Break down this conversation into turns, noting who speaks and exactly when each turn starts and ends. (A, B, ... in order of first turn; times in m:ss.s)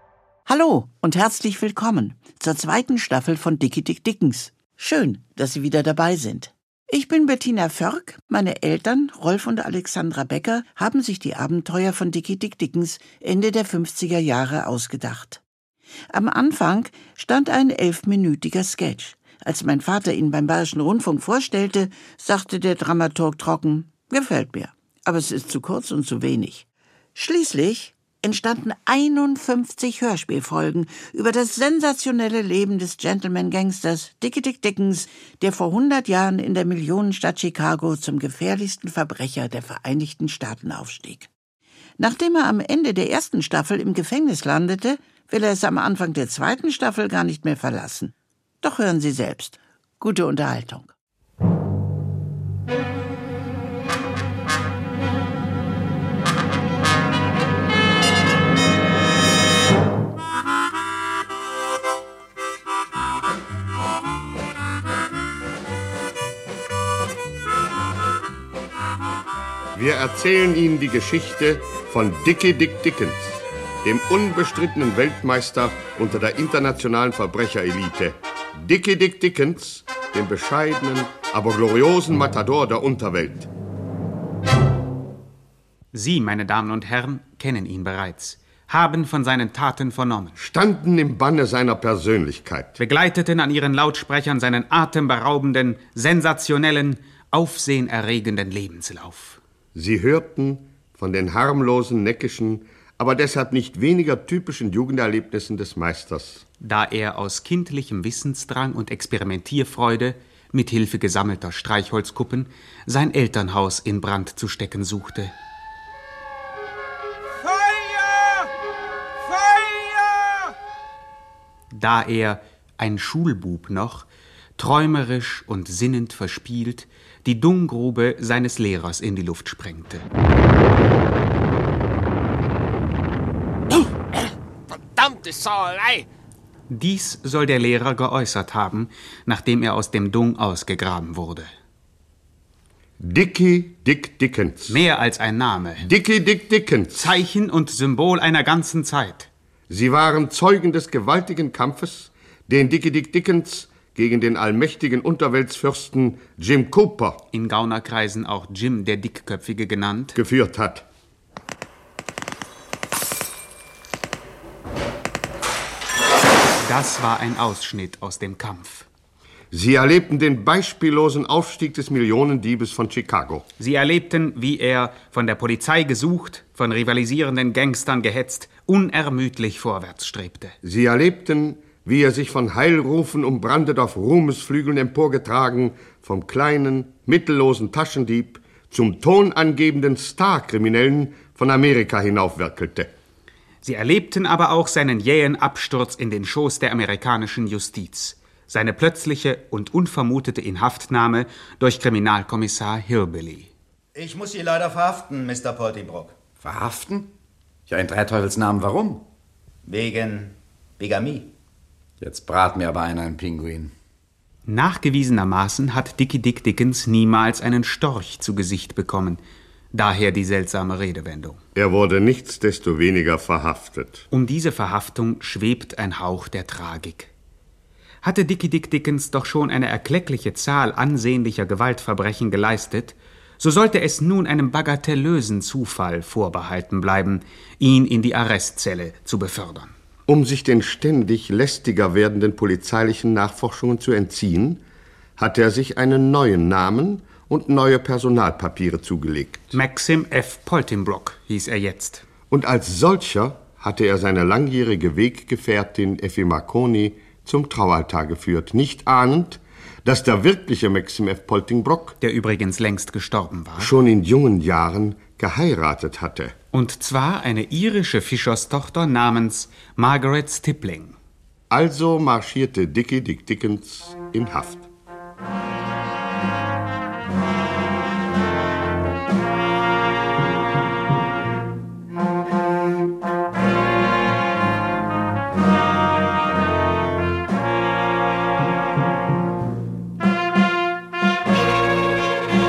0:00.5-0:15.4 A
0:16.1-0:41.3 A
0:42.0-0:50.9 A
1:09.8-1:23.5 B
1:25.9-1:30.4 C
1:30.4-1:32.8 B
1:32.8-1:39.4 C
1:39.7-1:46.4 B
1:46.6-1:55.3 C
1:57.4-1:58.5 D
1:59.2-2:00.5 D
2:01.7-2:04.1 C
2:04.6-2:10.1 C
2:15.0-2:16.0 D
2:16.7-2:21.5 C
2:23.0-2:24.8 B
2:24.7-2:25.9 C
2:25.8-2:27.1 B
2:26.9-2:29.3 C
2:29.7-2:37.2 B
2:37.3-2:40.2 C
2:40.2-2:40.8 B
2:46.6-2:48.9 C
2:49.5-2:53.4 B
2:53.6-3:00.6 C
3:00.6-3:12.9 B
3:13.6-3:23.5 C
3:24.0-3:26.1 E
3:26.4-3:27.1 F
3:27.7-3:29.0 F
3:29.7-3:31.3 E
3:32.0-3:33.7 F
3:34.5-3:39.2 C
3:39.7-3:41.4 C
3:41.6-3:44.1 B
3:44.1-3:47.1 C
3:48.0-3:59.7 C
4:00.1-4:04.6 B
4:05.2-4:09.5 B
4:09.5-4:12.0 C
4:12.3-4:22.0 B
4:22.0-4:23.7 C
4:23.6-4:26.4 B
4:26.5-4:31.0 C
4:31.5-4:34.7 B